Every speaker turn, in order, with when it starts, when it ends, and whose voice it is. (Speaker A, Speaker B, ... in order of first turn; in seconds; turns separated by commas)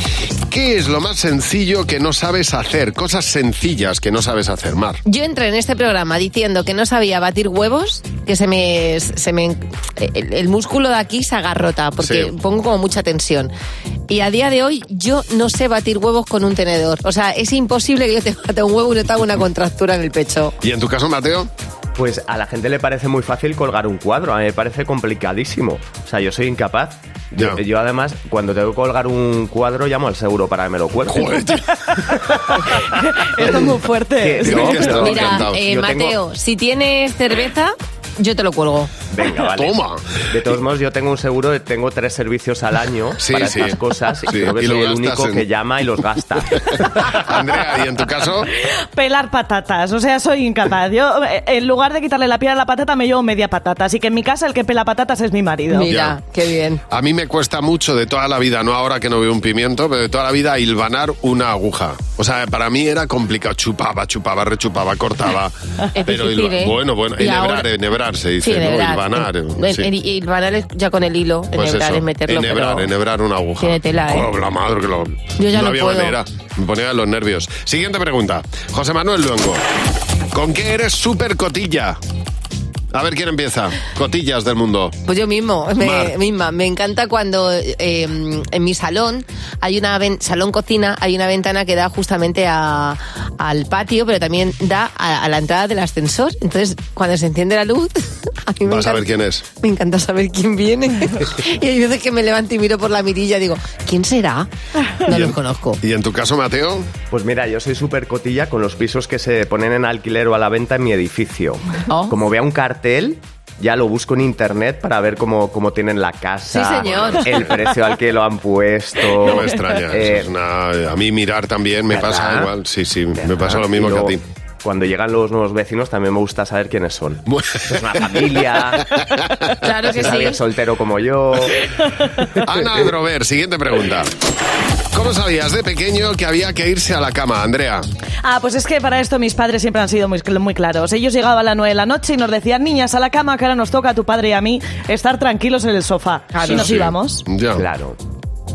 Speaker A: 0.5-5.0, Speaker B: 5.0-13.5, Speaker A: 12.0-12.3, Speaker B: 14.1-20.6, Speaker A: 20.6-21.5, Speaker C: 21.9-31.4, Speaker A: 27.4-27.6, Speaker A: 31.1-31.7, Speaker D: 31.9-35.0, Speaker C: 33.4-36.2, Speaker A: 34.5-35.6, Speaker B: 34.9-38.9, Speaker C: 39.1-47.2, Speaker A: 39.5-40.0, Speaker A: 43.2-45.5, Speaker A: 46.7-48.5, Speaker D: 48.4-55.9, Speaker B: 55.7-56.8, Speaker A: 55.9-56.2, Speaker A: 56.9-69.9, Speaker B: 66.0-67.7, Speaker B: 68.4-72.9, Speaker A: 71.5-79.6, Speaker B: 73.6-74.3, Speaker B: 75.4-76.2, Speaker A: 80.3-82.0, Speaker A: 82.9-85.0, Speaker B: 85.1-99.1, Speaker A: 85.8-86.1, Speaker A: 98.6-99.5, Speaker B: 99.6-105.8, Speaker A: 105.1-106.9, Speaker C: 107.1-120.3, Speaker B: 111.9-112.2, Speaker B: 116.5-117.4, Speaker A: 119.2-124.2, Speaker C: 121.9-122.5, Speaker C: 123.2-129.0, Speaker A: 127.3-128.3, Speaker A: 129.0-129.5, Speaker B: 129.6-130.4, Speaker C: 129.8-131.7, Speaker D: 131.8-132.1, Speaker A: 132.4-134.1, Speaker A: 134.9-137.8, Speaker D: 138.2-147.2, Speaker B: 146.3-146.8, Speaker A: 146.4-147.6, Speaker C: 147.6-148.0